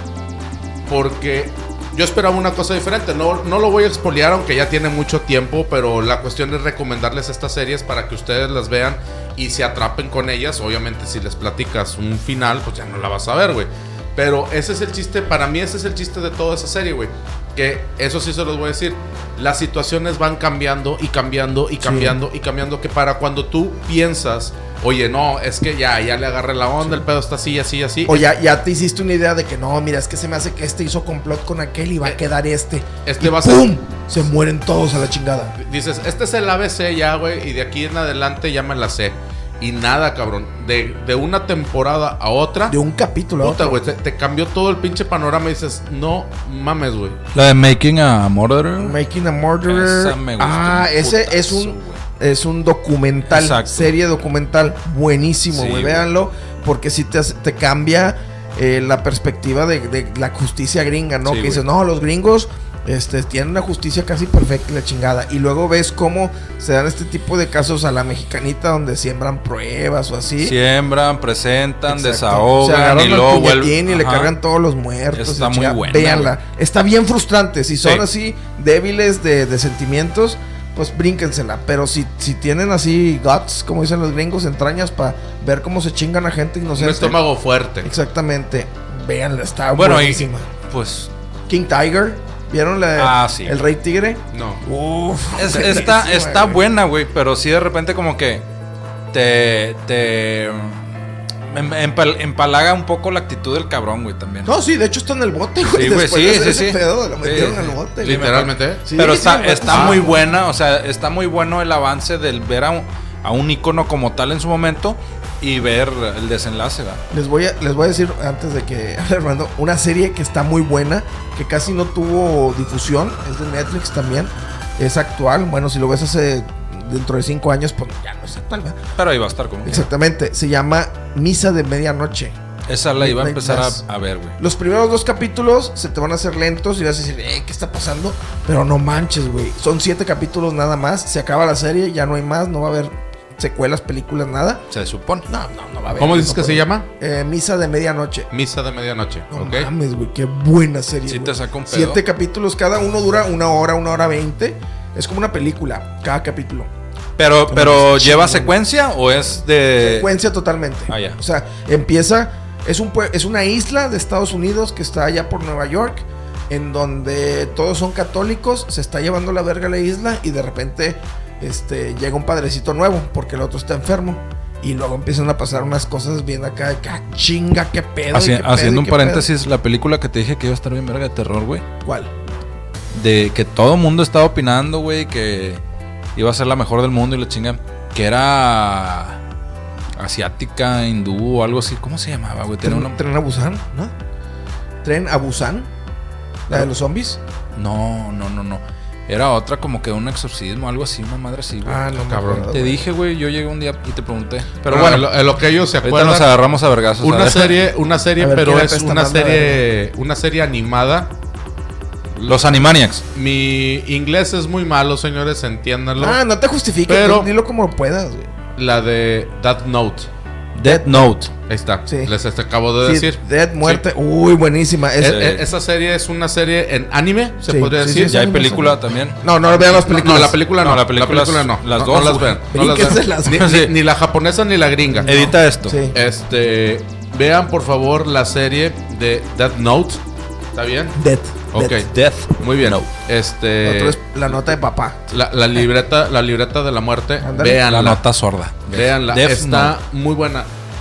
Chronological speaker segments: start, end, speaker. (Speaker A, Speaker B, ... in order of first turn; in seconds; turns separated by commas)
Speaker A: 0.9-28.3, Speaker B: 21.8-22.2, Speaker B: 28.1-35.5, Speaker A: 33.0-33.8, Speaker A: 35.6-42.8, Speaker B: 42.7-43.8, Speaker A: 43.4-47.2, Speaker C: 47.3-49.0, Speaker B: 48.8-70.6, Speaker C: 49.7-52.0, Speaker C: 53.2-54.0, Speaker C: 55.5-56.0, Speaker C: 61.3-61.6, Speaker C: 70.4-74.3, Speaker B: 71.9-87.2, Speaker C: 75.1-76.3, Speaker A: 86.8-87.9, Speaker B: 87.8-90.5, Speaker C: 89.8-91.1, Speaker B: 91.5-96.6, Speaker C: 93.0-93.6, Speaker A: 94.3-94.6, Speaker C: 95.4-98.4, Speaker C: 99.1-100.9, Speaker C: 101.5-104.5, Speaker B: 104.5-110.3, Speaker C: 105.6-117.0, Speaker A: 108.0-108.8, Speaker A: 109.7-110.0, Speaker B: 117.1-128.8, Speaker C: 129.0-129.9, Speaker B: 129.7-132.4, Speaker C: 132.7-134.4, Speaker B: 133.0-133.8, Speaker B: 134.4-144.7, Speaker C: 144.7-145.3, Speaker B: 145.3-148.3, Speaker A: 146.0-146.9, Speaker A: 148.3-149.7, Speaker B: 149.3-156.7, Speaker C: 151.1-152.0, Speaker C: 157.2-160.1, Speaker B: 157.5-158.6, Speaker B: 159.8-179.3, Speaker C: 160.9-161.2, Speaker C: 178.1-181.7, Speaker B: 181.8-182.1, Speaker C: 182.9-185.6, Speaker C: 186.2-189.2, Speaker C: 190.0-193.0, Speaker B: 192.6-193.9, Speaker B: 194.8-195.7, Speaker B: 196.5-197.2, Speaker C: 197.6-205.1, Speaker B: 201.7-202.8, Speaker A: 204.7-206.3, Speaker C: 205.8-207.6, Speaker A: 207.0-211.1, Speaker B: 208.2-209.6, Speaker A: 212.2-212.6, Speaker C: 212.3-213.0, Speaker A: 213.1-216.2, Speaker B: 216.0-218.3, Speaker A: 216.9-217.3, Speaker A: 218.6-220.1, Speaker C: 220.5-221.3, Speaker B: 220.6-221.2, Speaker A: 221.5-223.8, Speaker B: 221.9-222.1, Speaker B: 222.8-225.3, Speaker C: 225.0-225.5, Speaker A: 225.0-228.2, Speaker B: 227.4-230.4, Speaker C: 228.1-229.2, Speaker A: 229.6-235.3, Speaker C: 230.6-232.4, Speaker B: 232.5-233.6, Speaker C: 233.3-233.7, Speaker B: 234.9-236.0, Speaker C: 235.1-235.8, Speaker A: 235.9-240.0, Speaker A: 240.5-241.0, Speaker B: 240.9-241.8, Speaker A: 241.5-244.0, Speaker C: 241.7-242.9, Speaker B: 243.6-245.0, Speaker A: 245.1-248.0, Speaker B: 247.2-247.6, Speaker C: 247.6-249.7, Speaker A: 248.7-250.5